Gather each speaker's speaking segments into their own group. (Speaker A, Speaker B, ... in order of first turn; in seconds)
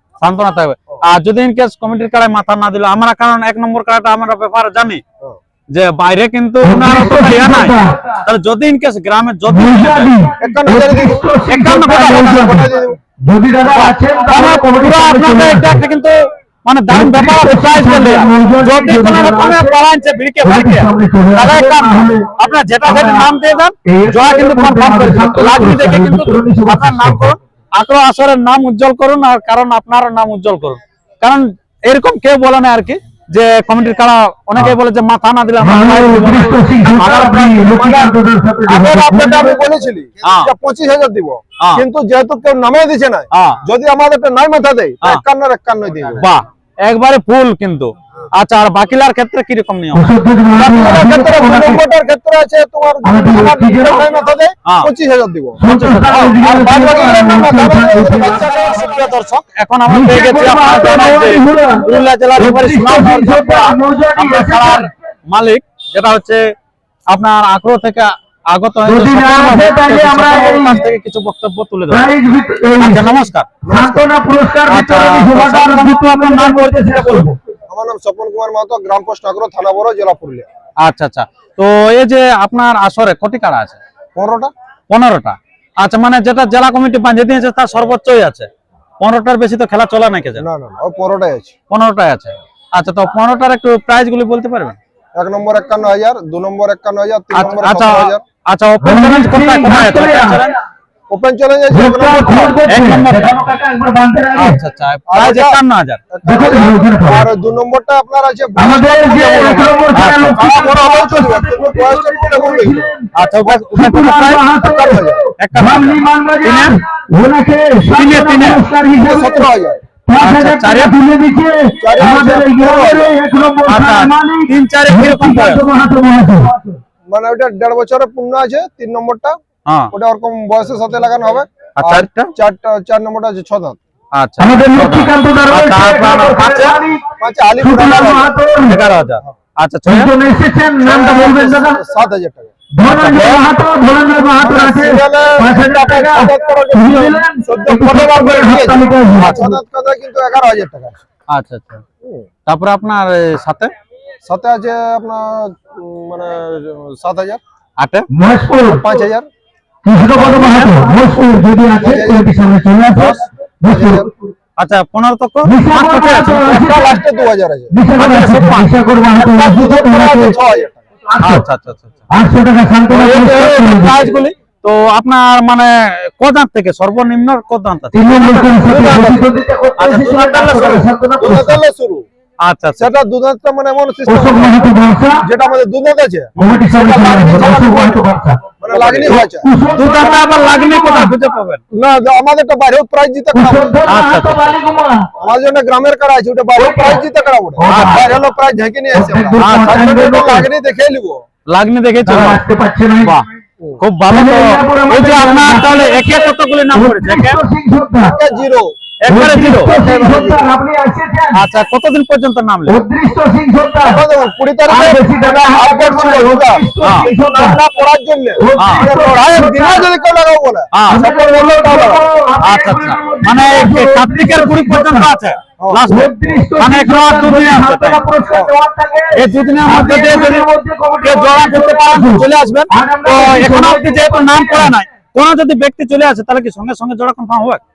Speaker A: 0.2-5.0, 5.7-10.2, 11.5-12.4, 13.7-37.5, 40.2-40.5, 43.3-43.6, 46.2-51.0, 55.7-57.5, 58.3-66.4, 67.1-72.1, 72.8-73.5, 74.7-77.3, 80.8-83.8, 84.9-88.5, 89.0-90.5, 91.7-94.8, 97.3-100.6, 102.7-103.4, 104.3-106.0, 109.9-110.4, 113.2-114.4, 115.4-116.8, 117.9-118.6, 120.2-121.0, 123.7-125.6, 129.7-129.9, 131.8-132.3, 134.1-136.8, 138.7-140.1, 142.8-143.4, 149.2-149.4, 151.3-151.8, 152.5-153.7, 157.8-158.1, 160.0-160.9, 164.6-166.5, 168.0-168.7, 171.2-172.0, 172.9-179.1, 179.8-180.9, 182.4-182.9, 186.4-186.7, 189.7-191.6, 193.9-194.6, 197.7-198.1, 199.4-200.2, 201.5-202.4, 203.8-207.4, 209.0-209.7, 211.3-212.8, 216.8-217.1, 218.6-218.9, 220.7-221.0, 222.4-228.0, 229.1-230.5, 231.0-237.6
Speaker B: 6.6-8.2, 9.5-15.8, 16.9-19.8, 20.4-22.3, 22.8-23.3, 23.9-27.3, 35.6-39.6, 49.9-51.8, 53.0-54.1, 55.6-58.5, 59.9-64.9, 68.8-70.8, 71.9-77.4, 98.8-100.4, 101.7-104.6, 106.2-107.3, 108.6-119.5, 120.1-126.8, 134.4-138.8, 139.9-141.8, 142.7-149.6, 158.1-158.9, 159.8-164.3, 165.4-167.0, 167.7-170.4, 171.1-171.4, 172.1-174.1, 177.9-181.6, 184.1-185.2, 186.4-191.1, 193.3-195.1, 196.6-198.2, 198.9-200.5, 202.1-203.1, 204.1-208.2, 209.1-211.4, 212.7-214.0, 214.7-217.6, 218.4-219.9, 220.9-225.1, 225.9-234.8
Speaker C: 10.4-13.0, 37.0-46.3, 50.7-55.6, 56.5-58.9, 73.6-74.1, 77.7-80.5, 84.2-84.5, 90.4-91.5, 95.2-98.2, 101.1-102.6, 105.1-112.9, 114.6-115.2, 119.0-119.8, 121.8-123.2, 127.1-129.4, 129.9-133.8, 137.2-138.3, 140.8-142.5, 144.4-151.0, 152.0-152.3, 154.2-157.4, 158.7-159.3, 161.8-162.3, 163.7-164.1, 166.4-167.8, 169.1-170.8, 178.7-179.3, 181.2-182.0, 182.8-184.7, 185.2-188.0, 188.6-189.5, 191.7-193.8, 195.2-201.2, 208.0-208.7, 209.3-210.5, 213.8-222.1